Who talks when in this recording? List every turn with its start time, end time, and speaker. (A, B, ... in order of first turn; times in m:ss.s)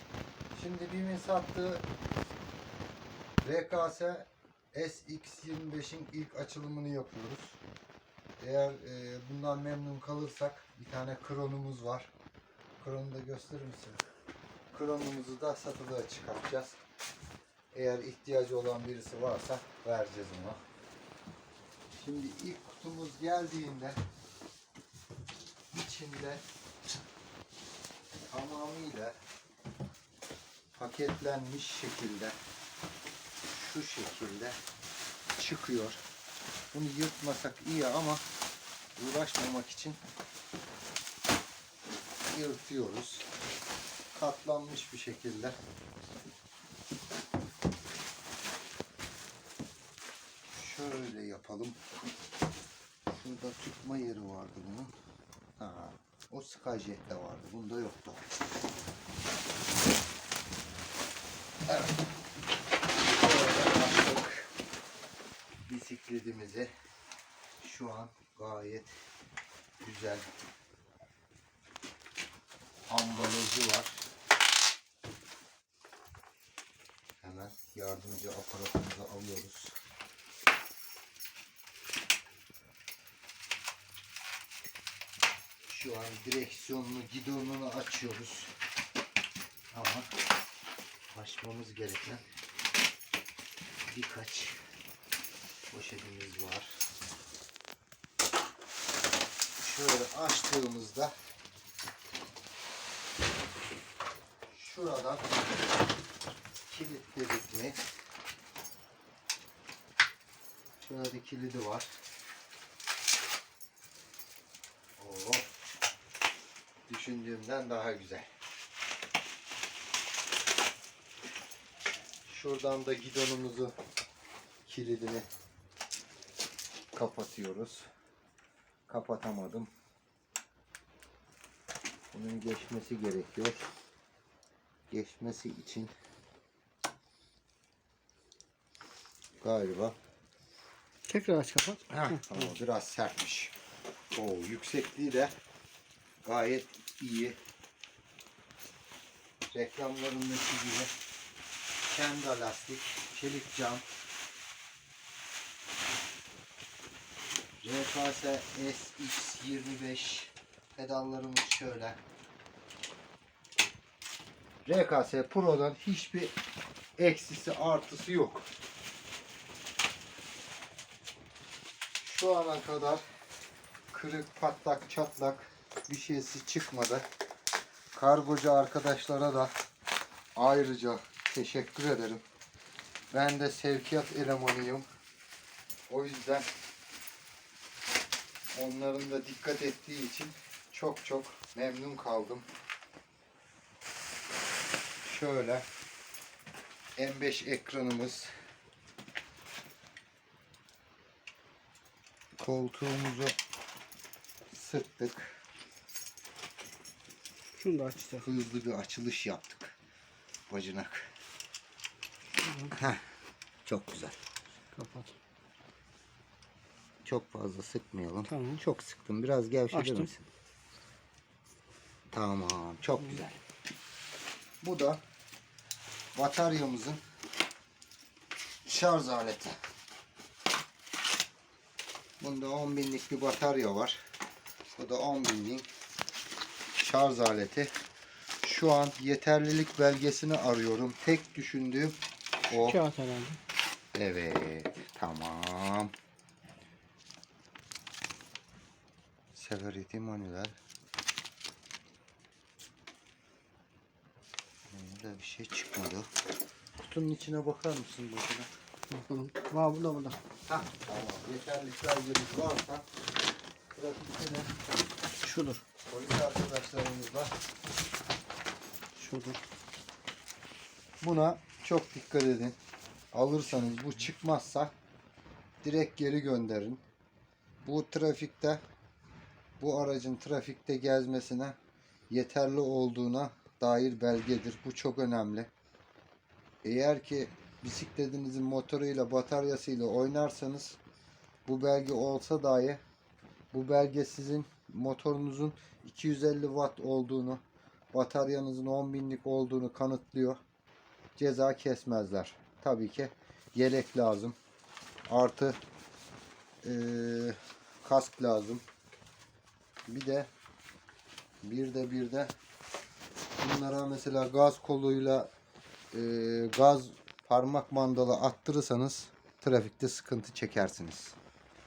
0:00.5-0:01.8 A
0:03.4-0:07.6 A
0:08.4-0:12.1 A
0:12.8-0:14.0 A
0:14.7-0:16.8 A
0:17.7-0:20.6 A
0:22.0-0:24.0 A
0:25.7-0:26.4 A
0:28.3-0:29.1 A
0:30.7-0:32.4 A
0:33.5-0:34.6 A
0:35.4-0:36.0 A
0:36.7-0:38.2 A
0:39.0-0:40.0 A
0:42.2-0:43.3 A
0:44.1-0:45.6 A
0:50.5-0:51.8 A
0:53.1-0:54.9 A
0:55.6-0:58.2 A
1:01.7-1:01.9 A
1:03.0-1:04.5 A
1:05.7-1:06.7 A
1:07.6-1:08.9 A
1:09.8-1:10.2 A
1:12.9-1:14.1 A
1:17.2-1:19.7 A
1:25.6-1:28.5 A
1:29.7-1:30.1 A
1:31.1-1:32.2 A
1:33.9-1:34.6 A
1:35.7-1:36.8 A
1:39.6-1:41.1 A
1:44.5-1:45.3 A
1:46.6-1:47.8 A
1:50.8-1:51.9 A
1:55.0-1:55.5 A
1:56.9-1:58.3 A
2:02.2-2:03.7 A
2:04.6-2:05.3 A
2:06.9-2:07.9 A
2:08.9-2:09.7 A
2:12.1-2:13.6 A
2:14.9-2:15.9 A
2:19.4-2:20.0 A
2:21.1-2:22.4 B
2:21.9-2:23.5 A
2:24.1-2:25.3 A
2:26.2-2:27.4 A
2:29.5-2:30.9 A
2:31.9-2:33.8 A
2:37.6-2:42.0 A
2:44.6-2:46.4 A
2:47.0-2:48.5 A
2:52.0-2:53.0 A
2:53.9-2:57.0 A
2:57.9-2:59.5 A
3:00.4-3:02.2 A
3:03.1-3:04.8 A
3:05.9-3:06.5 A
3:08.5-3:12.5 A
3:15.0-3:15.6 A
3:17.0-3:18.3 A
3:22.4-3:23.4 A
3:24.5-3:25.4 A
3:27.5-3:28.2 B
3:28.2-3:29.8 A
3:30.5-3:31.1 A
3:32.4-3:32.7 B
3:32.7-3:33.0 A
3:33.6-3:34.2 A
3:34.7-3:35.2 B
3:37.0-3:40.2 A
3:38.3-3:38.6 B
3:39.7-3:40.1 B
3:42.1-3:43.4 A
3:44.6-3:45.0 A
3:46.1-3:47.0 A
3:48.6-3:49.6 A
3:52.2-3:54.0 A
3:54.7-3:55.7 A
3:56.8-3:57.7 A
3:58.4-4:02.8 A
4:02.6-4:03.4 B
4:03.9-4:05.9 A
4:09.3-4:10.6 A
4:14.7-4:16.1 A
4:16.8-4:18.5 A
4:18.9-4:20.2 B
4:20.5-4:22.8 A
4:23.7-4:24.5 A
4:25.2-4:25.6 B
4:25.9-4:27.3 A
4:28.9-4:29.4 B
4:31.0-4:32.6 A
4:33.1-4:34.7 A
4:35.6-4:36.8 A
4:37.6-4:38.6 A
4:39.6-4:41.6 A
4:42.1-4:45.5 A
4:46.6-4:50.8 A
4:51.4-4:52.8 A
4:53.5-4:57.4 A
4:57.9-5:00.4 A
5:01.2-5:04.4 A
5:05.1-5:05.6 A
5:06.6-5:08.6 A
5:09.9-5:10.3 A
5:11.4-5:12.3 A
5:13.4-5:15.3 A
5:15.9-5:21.2 A